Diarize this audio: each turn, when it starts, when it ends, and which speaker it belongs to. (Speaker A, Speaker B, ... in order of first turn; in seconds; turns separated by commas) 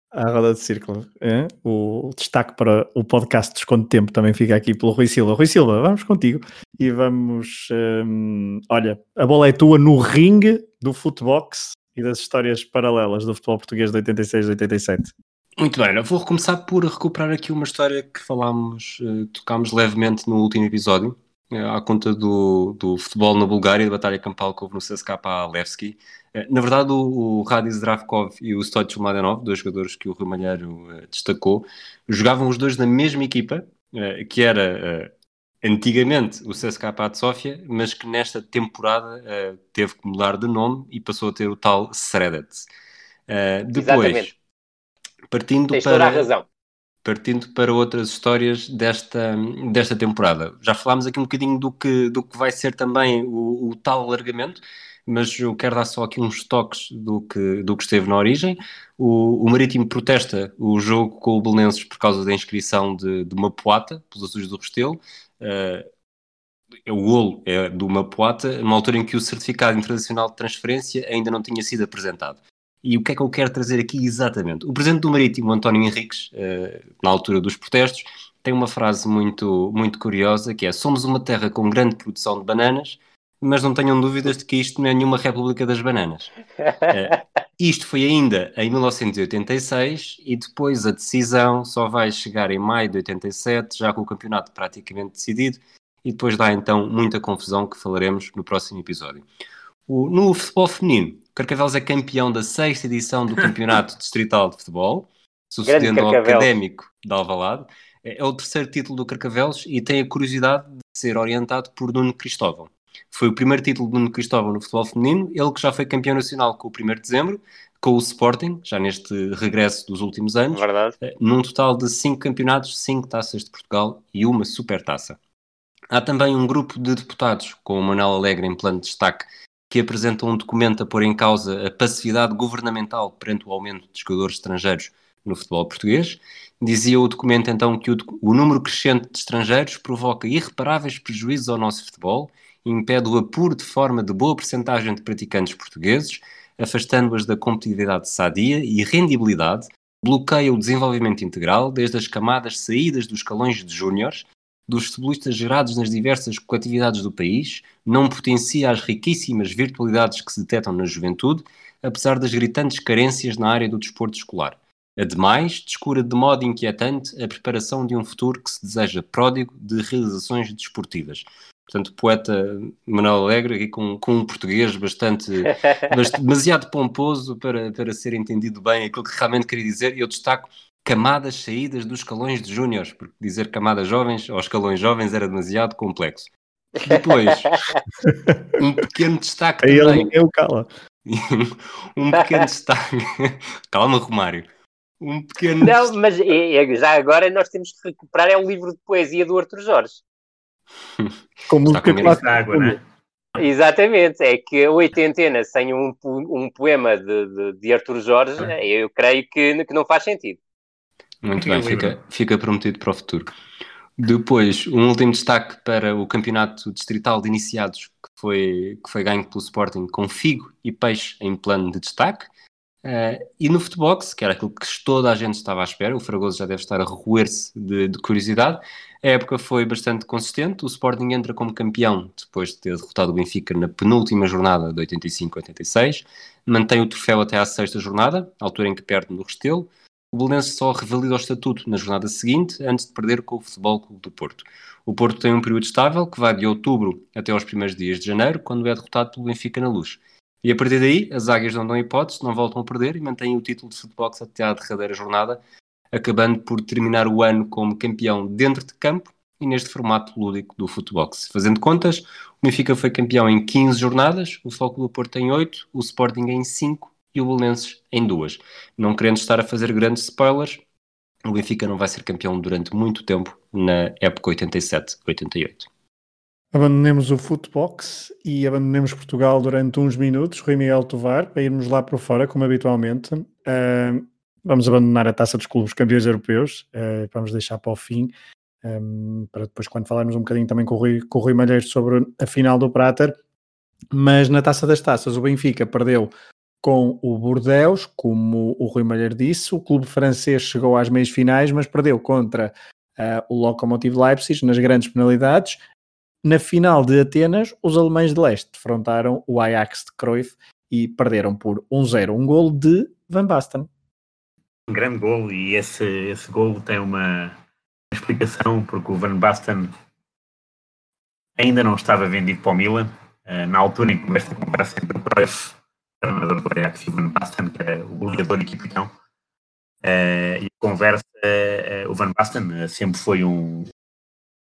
Speaker A: 0.1-15.1, Speaker B: 15.6-42.7, Speaker B: 43.3-44.4, Speaker C: 43.7-44.3, Speaker B: 45.3-46.3, Speaker C: 45.7-46.5, Speaker B: 47.0-65.9, Speaker B: 66.9-86.4, Speaker B: 86.9-99.2, Speaker B: 99.9-125.2, Speaker C: 105.7-106.5, Speaker C: 120.5-121.0, Speaker B: 125.9-186.3, Speaker C: 175.5-175.8, Speaker C: 186.8-187.8, Speaker B: 186.8-187.6, Speaker A: 188.1-188.6, Speaker B: 188.6-190.1, Speaker A: 189.6-190.7, Speaker B: 191.1-194.5, Speaker B: 195.0-195.9, Speaker C: 195.6-200.0, Speaker A: 201.5-202.8, Speaker B: 201.7-202.2, Speaker D: 202.0-202.8, Speaker C: 203.4-210.4, Speaker B: 211.2-213.3, Speaker D: 211.4-212.0, Speaker B: 214.0-222.3, Speaker B: 222.8-255.4, Speaker B: 255.9-270.6, Speaker B: 271.2-275.7, Speaker A: 276.5-293.1, Speaker A: 293.9-296.1, Speaker A: 296.6-305.6, Speaker A: 306.2-313.7, Speaker D: 314.7-317.4, Speaker D: 317.9-319.7, Speaker D: 321.4-328.9, Speaker D: 329.8-333.7